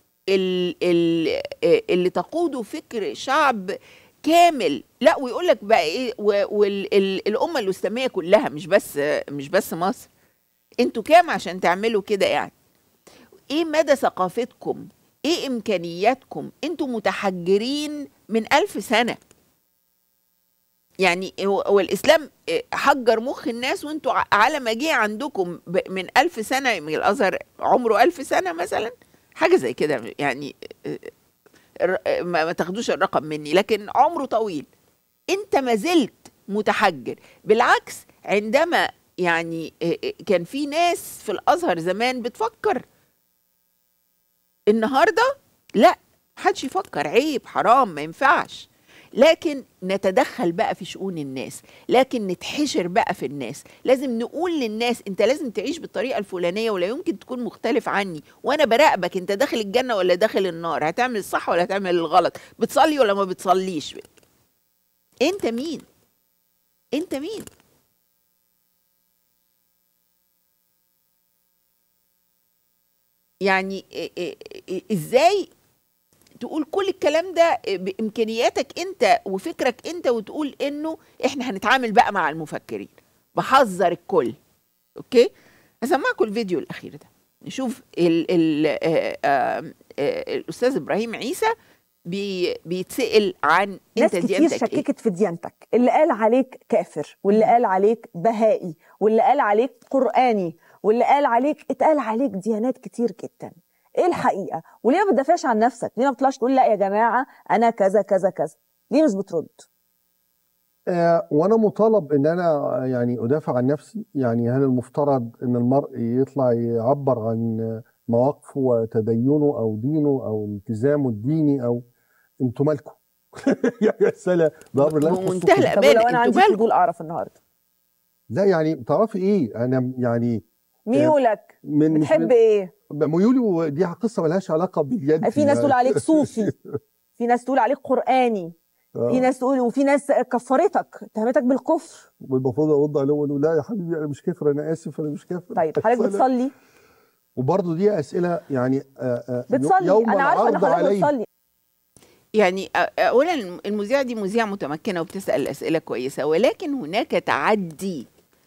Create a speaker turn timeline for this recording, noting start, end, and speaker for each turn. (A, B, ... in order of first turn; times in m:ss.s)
0:00.3-0:03.6 A
0:04.2-0:10.1 A
0:10.8-0:12.5 A
0:13.5-0:19.2 A
0:21.0-0:31.1 A
0:31.9-0:34.7 A
0:35.3-0:39.7 A
0:40.3-0:42.8 A
0:44.7-1:04.0 A
1:05.2-1:05.8 A
1:07.0-1:07.5 A
1:13.5-1:15.4 A
1:16.4-1:24.3 A
1:25.0-1:25.3 A
1:25.8-1:31.5 A
1:32.1-1:34.8 A
1:34.0-1:49.6 B
1:50.9-2:01.8 C
2:02.4-2:05.8 C
2:04.8-2:06.6 A
2:05.7-2:07.4 B
2:08.3-2:12.3 C
2:10.9-2:12.7 B
2:12.9-2:16.7 C
2:15.2-2:16.5 B
2:17.2-2:18.6 B
2:19.0-2:19.3 C
2:19.1-2:22.1 B
2:22.2-2:26.3 C
2:25.6-2:26.5 B
2:27.4-2:31.1 C
2:29.5-2:31.3 B
2:32.4-2:38.1 A